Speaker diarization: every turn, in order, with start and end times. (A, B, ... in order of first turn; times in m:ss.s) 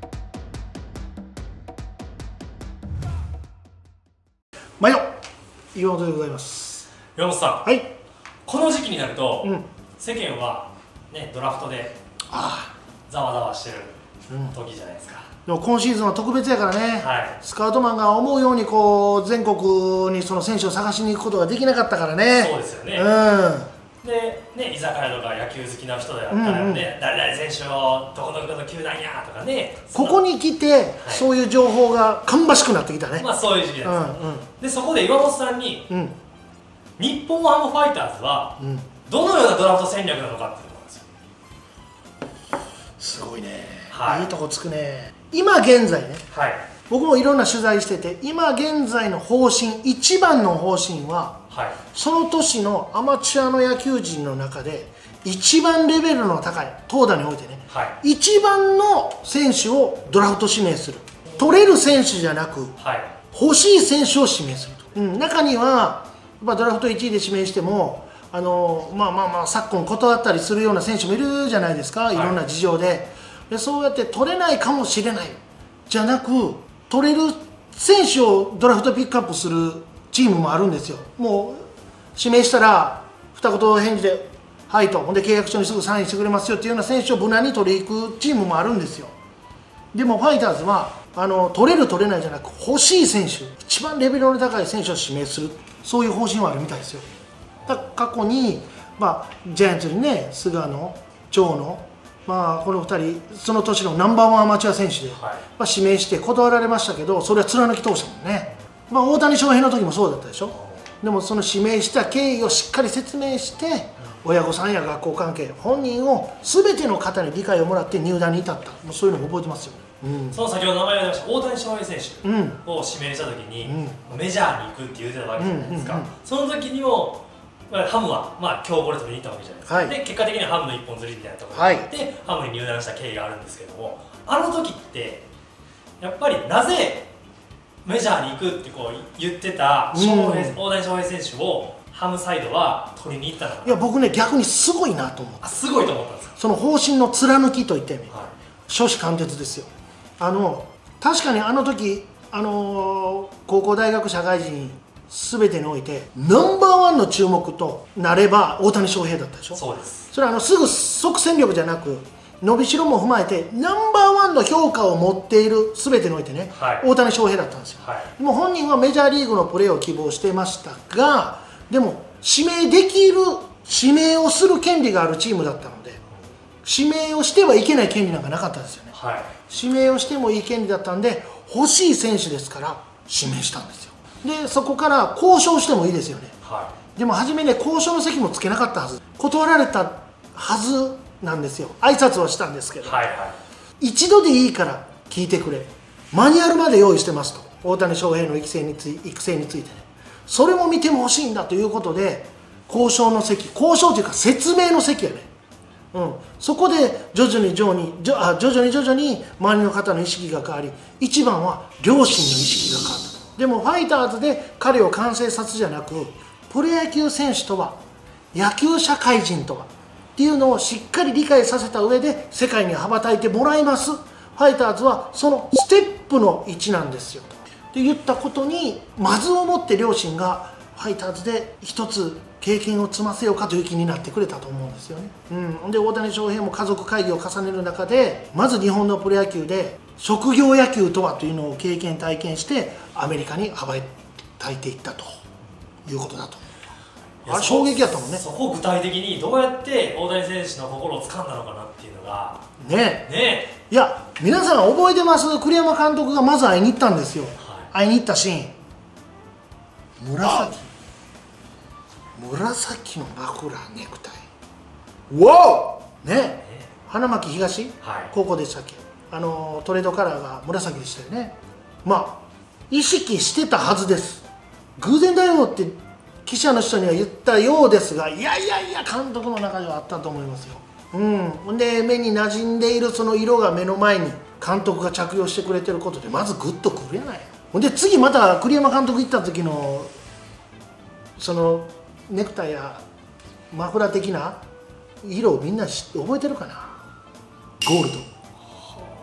0:04.8-0:05.1 A
0:05.7-0:06.9 A
0:07.2-0:07.7 B
0:07.6-0:07.9 A
0:08.5-0:12.0 B
0:12.3-0:12.7 A
0:13.1-0:14.0 B
0:14.3-0:14.6 A
0:14.5-0:15.3 B
0:15.5-0:23.7 A
0:17.0-0:17.4 B
0:22.3-0:23.1 B
0:24.0-0:30.2 B
0:26.3-0:26.9 A
0:29.9-0:33.3 A
0:31.0-0:31.3 B
0:33.2-0:35.9 B
0:33.8-0:34.5 A
0:35.9-0:36.2 A
0:37.0-0:41.1 B
0:38.6-0:38.9 A
0:43.0-0:46.3 A
0:43.9-0:44.3 B
0:46.3-0:46.6 B
0:46.9-1:02.8 A
0:51.5-0:51.8 B
0:57.7-0:58.0 B
1:02.8-1:03.1 B
1:03.3-1:21.6 A
1:12.1-1:12.4 B
1:22.2-1:29.1 A
1:29.9-1:37.1 A
1:37.7-2:00.4 A
1:45.1-1:45.4 B
2:00.3-2:15.3 B
2:02.2-2:02.6 A
2:03.6-2:04.0 A
2:05.4-2:06.1 A
2:09.7-2:10.0 A
2:11.5-2:11.9 A
2:16.0-2:17.1 B
2:17.8-2:23.8 B
2:19.9-2:20.6 A
2:23.6-2:25.5 A
2:25.4-2:26.4 B
2:26.4-2:28.1 A
2:28.7-2:56.0 A
2:39.6-2:40.1 B
2:46.6-2:46.9 B
2:47.8-2:48.1 B
2:56.6-2:59.0 A
2:58.9-2:59.3 B
2:59.5-3:06.4 A
3:06.4-3:06.7 B
3:06.9-3:13.0 A
3:12.8-3:13.4 B
3:13.8-3:25.3 A
3:25.9-3:37.8 A
3:38.3-4:05.2 A
4:05.9-4:06.6 A
4:07.2-4:12.4 B
4:07.3-4:08.2 A
4:12.6-4:13.1 A
4:13.1-4:13.6 B
4:13.7-4:18.6 A
4:17.4-4:17.7 B
4:20.0-4:20.7 A
4:22.2-4:24.2 A
4:25.1-4:34.3 A
4:27.8-4:28.1 B
4:34.8-4:49.9 A
4:51.2-4:52.8 A
4:53.5-4:54.4 A
4:55.0-4:56.8 A
4:57.6-4:58.1 A